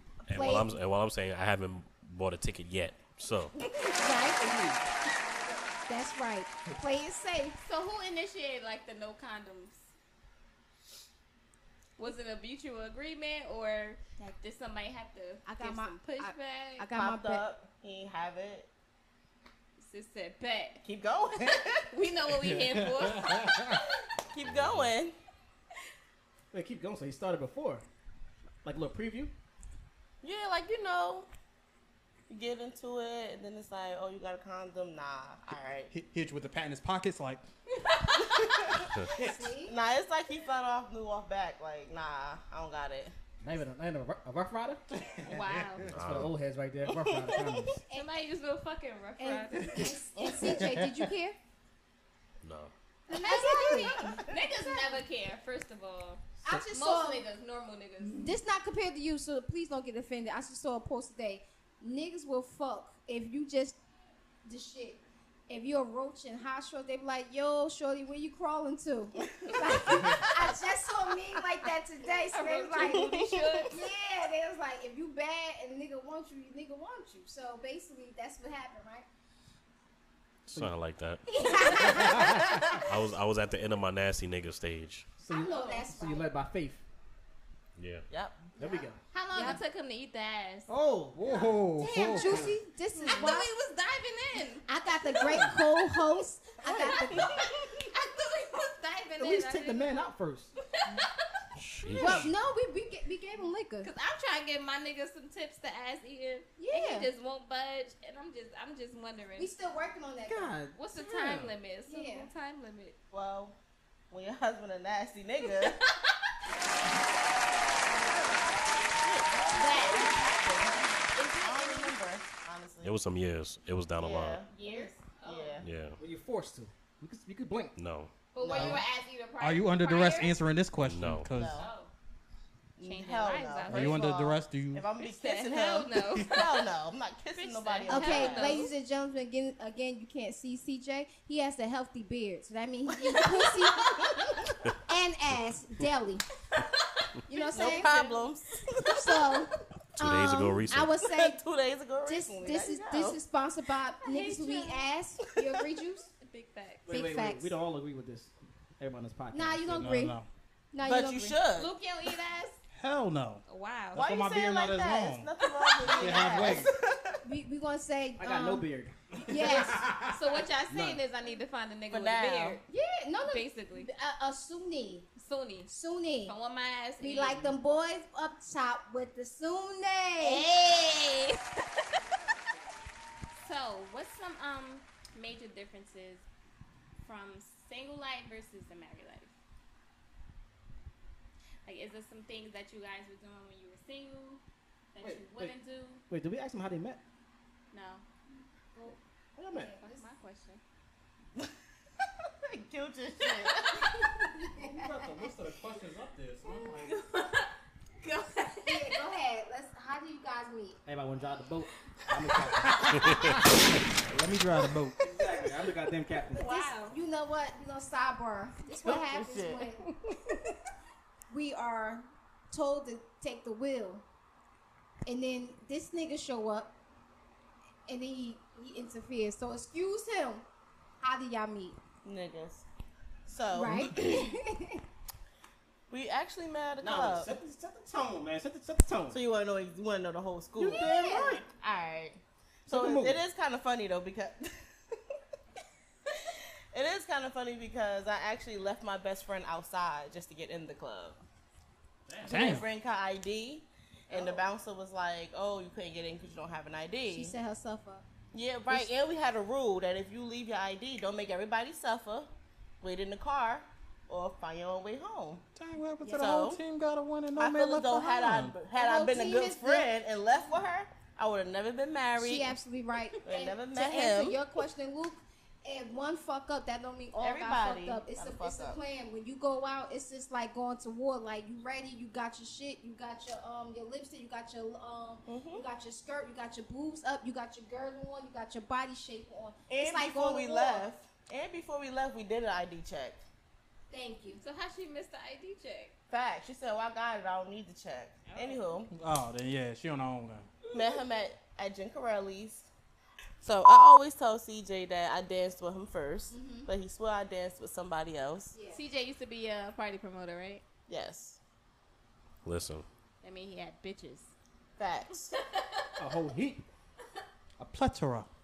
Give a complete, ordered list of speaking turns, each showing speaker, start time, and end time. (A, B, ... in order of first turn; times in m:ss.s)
0:00.3-0:03.6 A
0:00.3-0:00.8 B
0:04.0-0:04.6 B
0:04.4-0:04.8 C
0:05.9-0:07.6 B
0:07.6-0:09.8 D
0:12.0-0:16.9 D
0:15.4-0:17.4 B
0:16.9-0:18.7 E
0:19.8-0:20.8 D
0:20.8-0:21.9 E
0:21.9-0:23.6 D
0:22.4-0:23.8 F
0:24.3-0:25.2 E
0:24.4-0:24.9 A
0:26.5-0:27.8 C
0:28.6-0:29.3 C
0:30.2-0:31.3 E
0:32.3-0:35.9 E
0:35.9-0:37.4 F
0:37.8-0:38.7 D
0:38.4-0:38.9 E
0:39.2-0:39.8 B
0:39.6-0:43.1 E
0:43.4-0:44.8 C
0:45.1-0:45.9 F
0:45.3-0:46.0 D
0:45.9-0:46.3 A
0:45.9-0:47.8 C
0:46.9-0:47.6 E
0:47.9-0:49.9 D
0:49.2-0:51.4 B
0:50.2-0:50.7 E
0:50.5-0:51.1 F
0:52.4-0:52.7 A
0:53.1-0:54.2 B
0:53.1-0:58.4 D
0:56.4-0:57.2 B
0:58.2-1:03.8 B
1:04.4-1:19.0 B
1:12.3-1:13.8 D
1:12.9-1:13.6 E
1:20.5-1:22.0 A
1:21.3-1:22.6 B
1:21.6-1:22.1 D
1:22.7-1:25.1 A
1:25.2-1:26.8 C
1:25.3-1:26.3 B
1:27.8-1:28.1 A
1:28.1-1:28.5 E
1:28.6-1:29.0 C
1:29.1-1:30.7 D
1:29.3-1:29.6 B
1:30.7-1:31.5 C
1:31.2-1:32.6 F
1:31.4-1:33.5 B
1:33.0-1:34.6 D
1:34.7-1:37.4 B
1:35.2-1:35.5 C
1:36.6-1:41.2 D
1:36.8-1:37.5 E
1:39.2-1:40.5 C
1:41.6-1:42.3 A
1:41.9-1:42.3 D
1:42.0-1:43.9 B
1:43.8-1:49.5 D
1:46.6-1:47.1 B
1:49.4-1:50.6 B
1:50.3-1:50.7 E
1:50.5-1:50.7 C
1:50.8-1:53.0 D
1:51.2-1:51.5 A
1:51.9-1:52.3 B
1:53.1-1:53.6 E
1:54.1-1:55.8 E
1:55.4-1:56.1 D
1:59.0-2:00.7 E
1:59.5-2:02.0 D
2:01.4-2:03.0 E
2:02.8-2:04.4 A
2:04.0-2:05.6 E
2:04.5-2:05.7 D
2:05.6-2:06.0 A
2:06.0-2:07.7 C
2:07.8-2:08.1 A
2:08.3-2:10.4 D
2:08.4-2:08.8 E
2:08.5-2:08.8 F
2:09.4-2:11.6 F
2:10.8-2:11.3 A
2:11.3-2:11.7 E
2:11.4-2:11.9 D
2:12.8-2:18.6 E
2:12.8-2:14.1 D
2:13.7-2:14.9 F
2:15.0-2:16.7 D
2:17.3-2:18.7 D
2:17.9-2:24.2 B
2:22.9-2:24.6 E
2:24.9-2:26.2 B
2:27.3-2:28.2 B
2:27.4-2:28.2 D
2:27.5-2:29.4 E
2:28.9-2:31.4 B
2:30.0-2:30.9 A
2:30.8-2:33.2 E
2:32.0-2:36.1 B
2:34.0-2:34.9 D
2:36.2-2:37.0 D
2:36.9-2:39.7 C
2:36.9-2:37.5 B
2:39.3-2:40.2 B
2:39.7-2:40.3 F
2:40.7-2:41.4 B
2:40.8-2:41.7 E
2:41.5-2:42.6 D
2:42.7-2:43.4 F
2:43.5-2:44.1 D
2:43.9-2:45.3 F
2:44.0-2:46.7 E
2:45.8-2:46.3 D
2:46.0-2:46.7 F
2:47.2-2:48.7 B
2:48.2-2:49.9 C
2:49.3-2:49.9 B
2:49.3-2:50.2 F
2:50.1-2:52.6 D
2:50.7-2:51.0 C
2:51.9-2:52.6 E
2:52.7-2:55.1 B
2:53.3-2:53.9 D
2:55.2-2:55.7 D
2:55.7-2:56.4 B
2:56.2-2:57.5 D
2:57.0-3:00.5 B
3:00.2-3:01.6 D
3:03.4-3:06.2 D
3:07.0-3:09.3 D
3:11.6-3:14.4 D
3:14.9-3:16.0 D
3:15.0-3:15.5 C
3:16.1-3:17.0 C
3:17.7-3:18.0 D
3:19.4-3:19.7 C
3:19.5-3:20.1 B
3:19.8-3:20.6 D
3:22.4-3:23.8 E
3:24.4-3:24.8 B
3:24.6-3:27.0 F
3:26.5-3:29.0 D
3:28.6-3:30.8 B
3:30.9-3:33.4 C
3:32.6-3:35.0 F
3:35.0-3:36.4 C
3:36.3-3:37.0 D
3:36.4-3:39.8 B
3:38.8-3:39.6 E
3:41.3-3:44.0 B
3:45.1-3:46.7 B
3:47.9-3:50.4 B
3:51.0-3:51.8 B
3:52.0-3:52.7 E
3:53.3-3:54.2 E
3:53.5-3:54.8 B
3:55.9-3:57.3 E
3:56.8-3:59.2 C
3:59.1-4:04.6 E
4:00.6-4:01.5 C
4:00.6-4:01.4 B
4:02.7-4:03.2 C
4:06.7-4:11.2 E
4:12.1-4:12.6 C
4:12.3-4:12.7 F
4:12.3-4:17.4 E
4:14.1-4:14.4 B
4:17.1-4:18.0 B
4:18.3-4:22.3 E
4:22.8-4:25.4 E
4:25.6-4:28.6 F
4:26.0-4:26.4 B
4:26.2-4:26.6 E
4:27.4-4:32.6 E
4:28.7-4:29.9 B
4:32.2-4:50.8 B
4:33.3-4:34.4 E
4:37.1-4:38.8 E
4:45.3-4:45.6 E
4:49.7-4:53.2 E
4:53.9-4:54.4 B
4:54.4-4:55.9 D
4:56.1-4:58.9 E
4:58.2-4:58.8 D
4:58.9-5:00.5 F
5:00.7-5:02.7 E
5:03.4-5:08.6 E
5:06.3-5:06.7 B
5:08.5-5:08.8 B
5:08.7-5:10.6 D
5:10.9-5:11.4 E
5:12.4-5:12.9 A
5:13.2-5:14.3 D
5:14.8-5:15.3 E
5:15.3-5:16.0 D
5:16.0-5:16.6 C
5:17.6-5:18.3 F